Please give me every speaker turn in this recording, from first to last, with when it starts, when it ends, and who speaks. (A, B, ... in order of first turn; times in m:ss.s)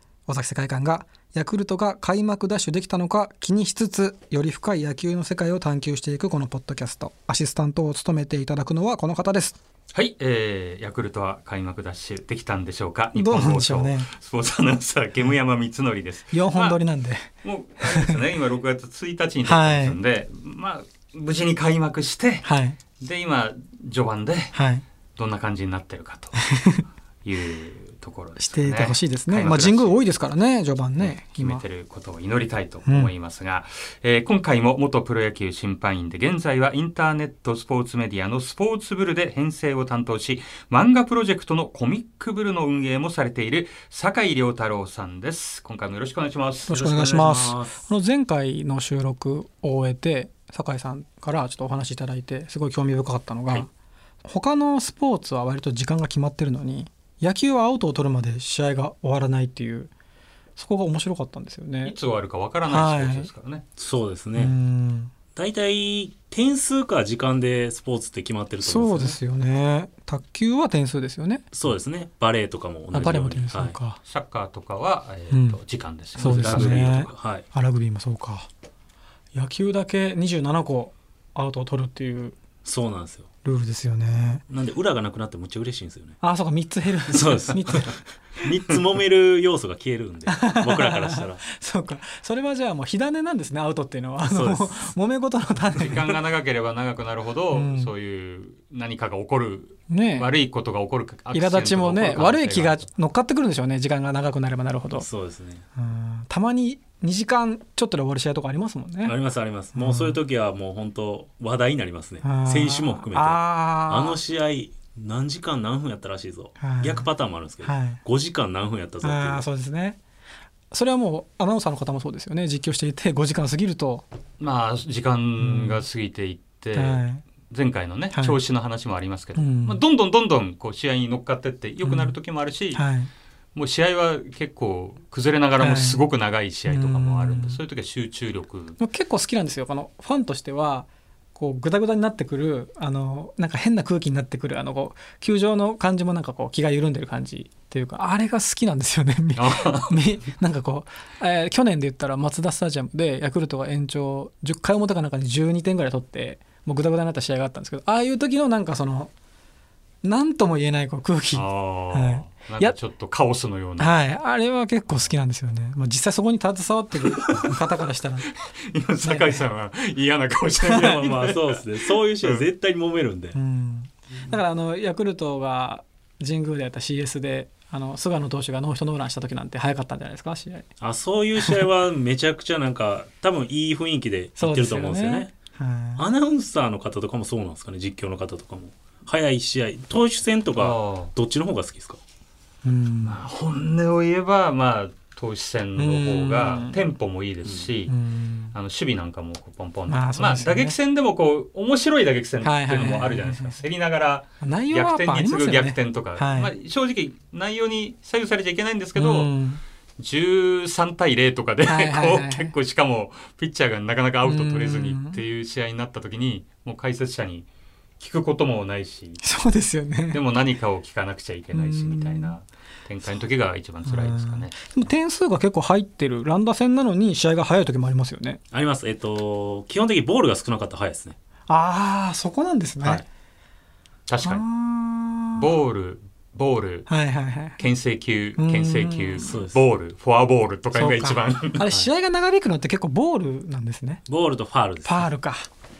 0:00.3-0:09.6 A
0:09.9-0:16.8 B
0:13.1-0:14.1 A
0:16.3-0:17.3 A
0:17.4-0:22.4 B
0:17.8-0:18.2 A
0:19.4-0:20.0 A
0:22.4-0:22.8 A
0:23.0-0:24.5 B
0:24.5-0:24.8 A
0:25.2-0:26.4 B
0:26.4-0:26.8 A
0:27.2-0:30.1 B
0:28.4-0:31.6 A
0:31.0-0:46.7 B
0:32.8-0:33.1 A
0:46.6-0:47.9 C
0:46.7-0:53.7 A
0:54.2-0:59.9 A
1:00.6-1:02.0 A
1:01.8-1:03.6 B
1:02.7-1:03.3 A
1:03.8-1:04.6 C
1:04.3-1:05.1 A
1:05.3-1:09.2 C
1:08.6-1:11.4 A
1:11.5-1:13.8 C
1:12.9-1:14.0 A
1:12.9-1:13.2 B
1:14.0-1:17.1 B
1:15.3-1:15.6 A
1:16.1-1:18.5 A
1:16.2-1:17.4 C
1:19.3-1:22.4 A
1:22.6-1:23.3 C
1:23.4-1:24.4 A
1:24.5-1:26.2 C
1:26.2-1:28.0 A
1:27.1-1:31.4 C
1:28.4-1:28.8 B
1:30.3-1:36.1 A
1:34.2-1:34.9 C
1:35.7-1:42.9 B
1:37.5-1:37.9 A
1:39.9-1:40.3 A
1:41.3-1:45.0 A
1:44.9-1:45.6 C
1:45.8-1:49.1 A
1:49.0-1:59.4 C
1:49.7-1:50.2 A
1:52.2-1:54.2 A
1:56.6-1:57.1 A
1:57.6-1:58.0 A
1:59.0-2:00.0 A
2:00.7-2:04.0 A
2:04.4-2:12.8 B
2:05.4-2:05.8 A
2:06.7-2:07.2 A
2:08.1-2:08.4 A
2:09.3-2:09.8 A
2:11.8-2:12.2 A
2:12.7-2:13.1 A
2:13.5-2:18.8 B
2:15.6-2:16.0 A
2:16.7-2:17.6 A
2:18.8-2:39.1 A
2:29.3-2:30.0 B
2:40.0-2:42.8 A
2:41.3-2:44.0 B
2:43.8-2:48.3 A
2:47.0-2:47.5 B
2:48.7-2:52.4 B
2:49.0-2:49.4 A
2:50.6-2:51.0 A
2:50.7-2:53.4 C
2:53.3-3:00.7 A
3:00.8-3:05.3 C
3:01.4-3:01.6 A
3:04.4-3:06.0 A
3:06.0-3:12.0 C
3:10.6-3:11.1 B
3:12.6-3:13.2 A
3:13.0-3:17.9 B
3:15.8-3:16.8 A
3:17.9-3:18.5 A
3:18.5-3:29.3 B
3:19.9-3:20.8 A
3:22.4-3:23.6 A
3:24.4-3:26.5 A
3:28.9-3:29.6 A
3:30.0-3:37.5 B
3:31.6-3:32.5 A
3:34.2-3:35.2 A
3:38.0-3:39.2 B
3:39.2-3:40.2 A
3:40.1-3:44.9 B
3:41.5-3:42.4 A
3:43.8-3:48.4 A
3:48.5-3:51.2 C
3:51.5-3:53.0 A
3:54.1-3:54.4 B
3:54.2-3:55.5 A
3:55.3-3:56.9 B
3:56.9-3:57.6 A
3:57.5-4:01.7 B
3:58.4-3:59.3 A
3:59.2-3:59.6 C
4:00.7-4:04.0 A
4:04.1-4:05.1 C
4:04.8-4:05.5 A